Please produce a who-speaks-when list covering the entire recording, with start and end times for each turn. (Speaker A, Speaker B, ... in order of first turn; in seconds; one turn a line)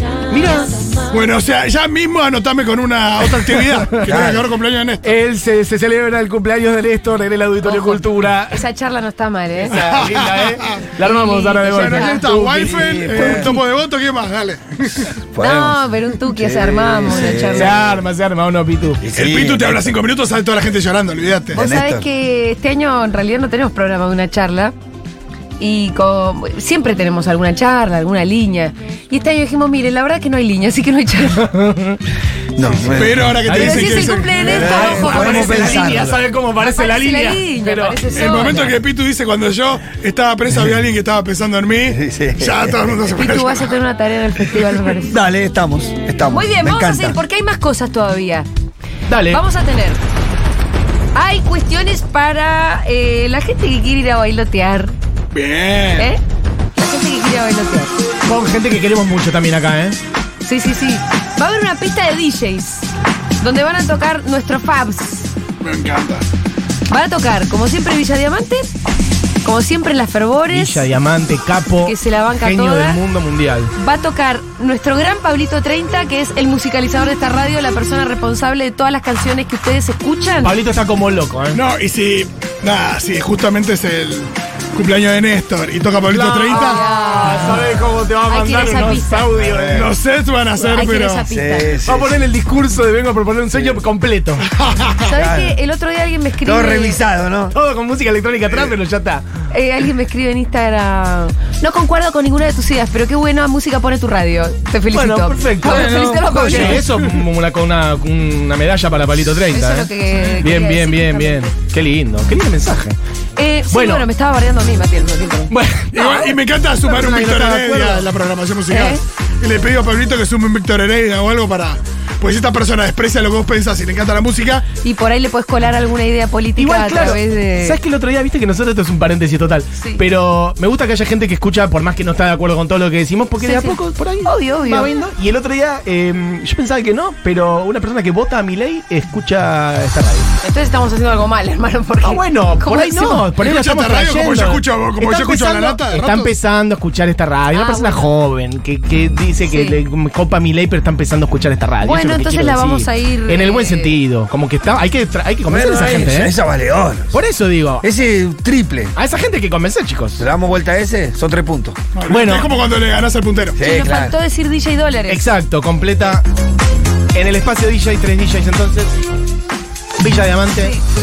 Speaker A: 0.3-1.0
Speaker B: 1.1-5.1
Speaker A: 3.7-4.2
Speaker C: 4.0-4.4
Speaker A: 5.0-8.6
Speaker D: 7.6-9.8
Speaker A: 9.7-13.6
Speaker B: 9.7-10.8
Speaker D: 11.0-12.2
Speaker B: 11.7-15.1
Speaker C: 12.6-13.6
Speaker C: 15.0-17.9
Speaker D: 15.4-17.7
Speaker A: 17.5-19.0
Speaker C: 19.0-19.9
Speaker B: 19.1-21.6
Speaker C: 21.5-22.1
Speaker D: 21.5-24.7
Speaker D: 25.6-31.5
Speaker A: 31.3-32.0
Speaker C: 32.5-33.6
Speaker A: 32.6-38.7
Speaker B: 32.9-35.1
Speaker D: 33.5-35.9
Speaker C: 34.5-36.2
Speaker D: 36.6-38.7
Speaker B: 38.1-43.8
Speaker C: 41.9-43.0
Speaker D: 43.1-45.2
Speaker C: 44.9-47.2
Speaker D: 46.3-48.5
Speaker A: 49.1-49.4
Speaker D: 49.3-50.0
Speaker D: 51.1-54.9
Speaker B: 55.3-56.1
Speaker D: 56.7-57.9
Speaker A: 58.2-60.0
Speaker D: 60.4-62.9
Speaker D: 63.4-65.3
Speaker B: 65.6-66.2
Speaker D: 66.9-68.7
Speaker D: 69.4-70.8
Speaker A: 70.5-73.7
Speaker D: 71.8-73.0
Speaker D: 73.8-80.5
Speaker A: 80.4-81.6
Speaker B: 81.5-86.8
Speaker A: 86.1-89.9
Speaker D: 86.5-87.7
Speaker D: 88.3-89.3
Speaker C: 89.3-89.9
Speaker B: 89.7-91.3
Speaker D: 90.6-91.8
Speaker C: 91.3-92.2
Speaker A: 91.8-94.4
Speaker B: 94.5-95.0
Speaker D: 95.0-97.0
Speaker C: 95.1-95.6
Speaker C: 96.4-97.5
Speaker A: 97.5-99.2
Speaker D: 99.5-106.8
Speaker A: 104.9-109.9
Speaker C: 105.6-106.9
Speaker D: 109.5-111.5
Speaker A: 110.4-113.0
Speaker D: 113.3-115.5
Speaker A: 113.7-114.0
Speaker A: 115.5-118.1
Speaker B: 115.9-124.7
Speaker D: 118.7-119.0
Speaker D: 124.8-127.8
Speaker A: 126.6-140.3
Speaker D: 133.4-134.9
Speaker D: 140.4-143.3
Speaker A: 142.0-156.3
Speaker B: 143.4-146.3
Speaker D: 147.5-148.1
Speaker D: 149.4-149.8
Speaker D: 151.8-153.9
Speaker C: 155.5-157.2
Speaker A: 157.1-157.9
Speaker C: 157.8-158.9
Speaker A: 158.9-160.2
Speaker C: 160.2-161.8
Speaker B: 161.9-163.6
Speaker A: 162.1-162.5
Speaker C: 163.6-164.2
Speaker D: 163.6-165.2
Speaker A: 165.1-166.2
Speaker A: 167.1-169.0
Speaker A: 170.0-170.8